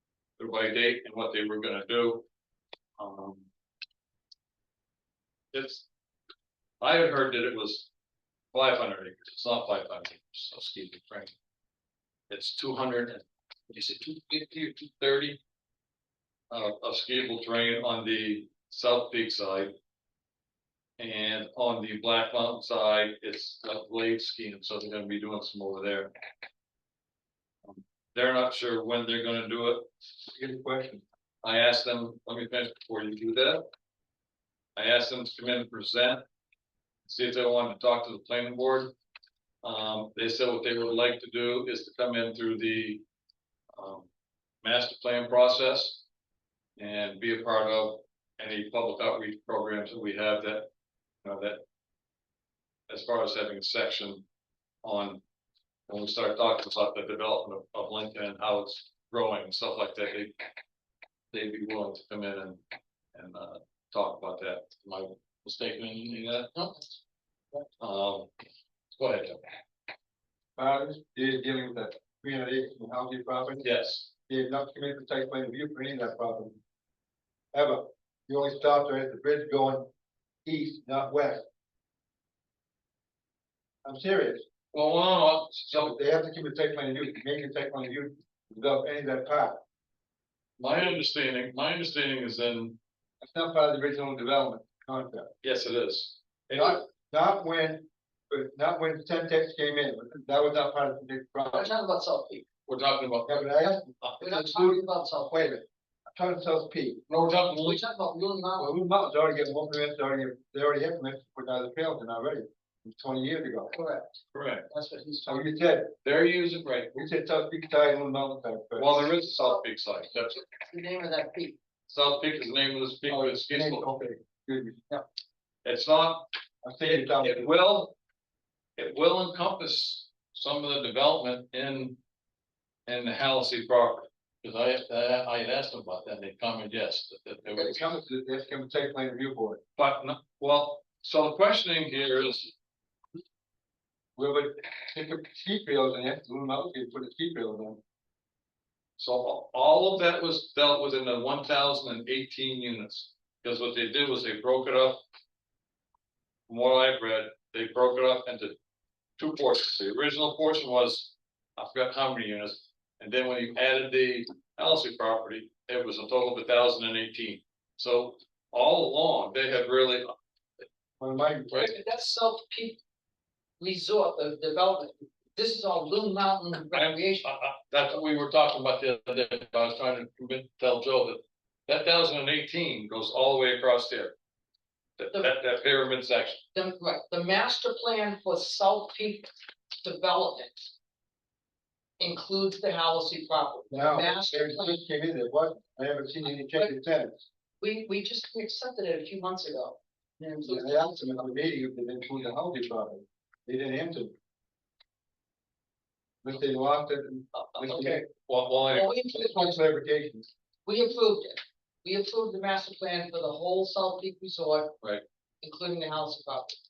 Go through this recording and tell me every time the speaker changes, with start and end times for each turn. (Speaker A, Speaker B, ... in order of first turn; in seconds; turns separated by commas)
Speaker A: 0.4-2.2, Speaker A: 3.0-3.5, Speaker A: 5.5-5.9, Speaker A: 6.8-7.9, Speaker A: 8.5-11.3, Speaker A: 12.3-15.4, Speaker A: 16.5-19.7, Speaker A: 21.0-26.1, Speaker A: 27.6-29.9, Speaker B: 30.3-31.0, Speaker A: 31.4-33.6, Speaker A: 34.8-36.2, Speaker A: 37.0-38.9, Speaker A: 39.6-43.0, Speaker A: 43.7-44.1, Speaker A: 44.6-46.0, Speaker A: 46.8-50.7, Speaker A: 51.2-51.6, Speaker A: 52.9-54.2, Speaker A: 54.8-55.2, Speaker A: 55.9-60.4, Speaker A: 61.3-62.6, Speaker A: 63.1-66.5, Speaker C: 66.5-66.9, Speaker A: 67.8-68.3, Speaker A: 69.0-69.4, Speaker B: 70.5-73.7, Speaker A: 73.6-74.1, Speaker B: 74.3-76.6, Speaker B: 77.5-79.9, Speaker B: 80.4-81.4, Speaker B: 83.8-84.4, Speaker A: 84.7-85.9, Speaker B: 85.7-89.6, Speaker A: 90.6-92.8, Speaker B: 93.2-95.3, Speaker A: 95.4-96.8, Speaker B: 96.5-101.7, Speaker C: 101.5-102.4, Speaker A: 102.7-103.5, Speaker B: 103.3-107.0, Speaker C: 104.2-105.4, Speaker A: 107.1-107.8, Speaker C: 107.5-108.7, Speaker B: 108.6-113.7, Speaker C: 113.7-115.5, Speaker A: 114.3-114.7, Speaker B: 115.2-116.0, Speaker A: 116.0-116.9, Speaker B: 116.9-119.1, Speaker A: 118.8-120.4, Speaker C: 119.3-119.6, Speaker C: 120.3-121.6, Speaker A: 121.9-123.9, Speaker B: 123.1-124.8, Speaker A: 125.6-126.3, Speaker B: 126.6-127.5, Speaker A: 126.8-128.0, Speaker A: 128.8-132.0, Speaker A: 132.9-137.9, Speaker B: 137.5-139.6, Speaker A: 139.8-142.5, Speaker B: 144.2-147.8, Speaker A: 149.0-155.0, Speaker A: 156.5-158.6, Speaker A: 159.2-170.1, Speaker B: 171.0-171.7, Speaker C: 171.6-172.8, Speaker C: 173.6-177.3, Speaker A: 176.7-184.2, Speaker A: 185.0-186.4, Speaker C: 186.6-190.7, Speaker C: 192.0-194.8, Speaker B: 193.7-197.2, Speaker C: 197.6-201.3, Speaker B: 200.4-204.1, Speaker B: 206.2-208.0, Speaker A: 207.4-208.9, Speaker C: 207.7-208.0, Speaker C: 208.7-209.6, Speaker B: 209.1-210.3, Speaker C: 210.7-214.8, Speaker C: 215.4-216.6